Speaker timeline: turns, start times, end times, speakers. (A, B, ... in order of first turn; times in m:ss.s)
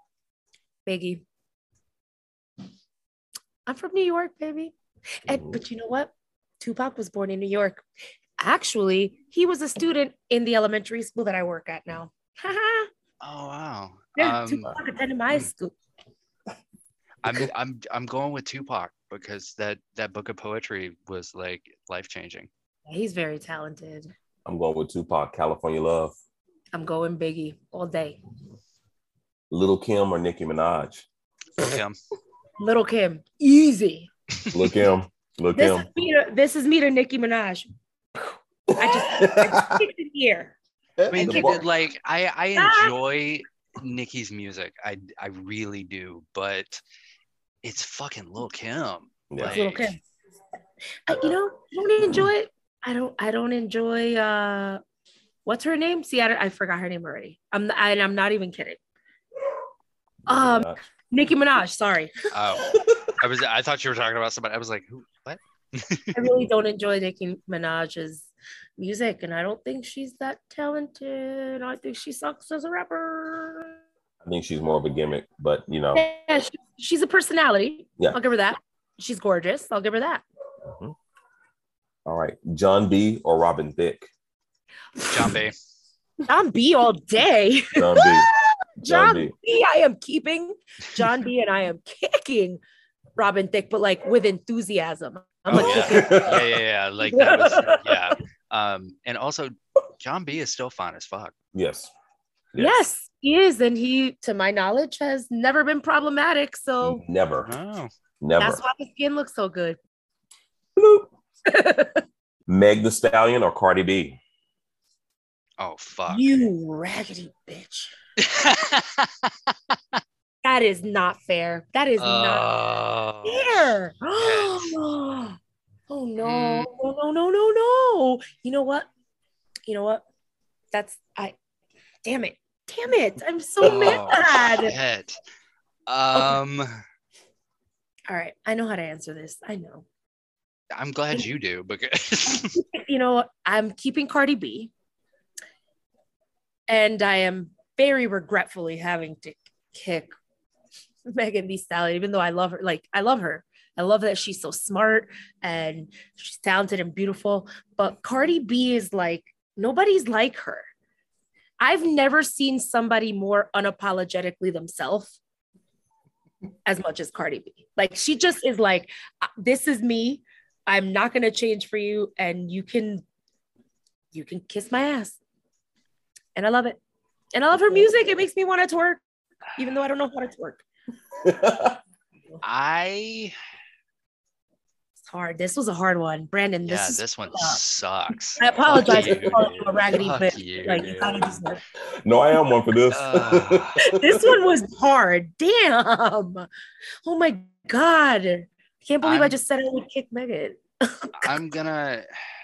0:00.9-0:01.2 A
0:03.7-0:04.7 A
0:05.2-0:07.8 A
0:05.3-0:05.6 B
0:08.4-0:12.9 A
0:13.2-0:14.7 C
0:14.2-0:15.7 A
0:17.2-0:22.5 C
0:22.9-0:24.1 A
0:24.4-0:26.2 B
0:26.7-0:28.2 A
0:29.5-0:31.1 B
0:31.6-0:32.0 C
0:32.6-0:34.1 A
0:34.5-0:35.9 B
0:35.6-0:40.6 A
0:38.7-0:39.8 B
0:41.0-0:41.7 B
0:41.1-0:46.8 C
0:41.1-0:41.6 A
0:42.6-0:42.9 A
0:47.6-0:50.0 C
0:49.3-0:49.6 B
0:49.4-0:50.0 A
0:51.1-0:54.8 A
0:55.5-0:58.8 A
1:00.3-1:00.8 B
1:00.3-1:02.1 A
1:02.3-1:06.2 C
1:02.7-1:03.1 B
1:06.1-1:13.7 A
1:14.2-1:16.0 B
1:16.0-1:20.2 A
1:20.6-1:21.0 B
1:22.1-1:24.1 B
1:25.0-1:25.4 A
1:25.1-1:25.6 C
1:26.3-1:32.6 A
1:27.8-1:28.3 B
1:28.8-1:29.3 B
1:33.2-1:36.3 A
1:35.5-1:41.3 C
1:35.5-1:36.6 B
1:37.0-1:38.1 A
1:41.5-1:41.9 B
1:42.6-1:47.0 A
1:46.8-1:47.5 B
1:47.4-1:47.9 C
1:48.2-1:48.6 B
1:48.4-1:49.8 A
1:50.8-1:51.1 B
1:51.5-1:52.0 A
1:52.5-1:54.2 B
1:55.6-1:56.3 C
1:56.1-1:57.9 A
1:58.2-2:00.0 C
2:00.4-2:02.5 A
2:02.0-2:04.8 C
2:03.2-2:05.4 A
2:05.9-2:08.9 A
2:06.2-2:06.7 C
2:09.7-2:10.0 A
2:10.7-2:11.4 A
2:12.0-2:14.8 A
2:13.6-2:15.2 C
2:15.9-2:16.7 C
2:18.1-2:19.8 A
2:20.8-2:22.6 C
2:22.4-2:24.7 A
2:26.7-2:30.1 A
2:31.1-2:40.7 A
2:41.6-2:45.2 A
2:46.7-2:53.0 A
2:54.1-2:55.2 A
2:56.4-2:56.8 A
2:57.3-2:59.0 A
2:59.6-3:00.6 A
3:01.2-3:01.8 B
3:02.4-3:03.3 C
3:05.1-3:07.6 A
3:06.6-3:11.4 C
3:08.4-3:11.6 A
3:08.7-3:09.5 B
3:12.0-3:14.4 B
3:12.9-3:13.8 C
3:13.8-3:16.5 A
3:17.0-3:21.3 A
3:19.0-3:19.4 C
3:21.2-3:22.1 C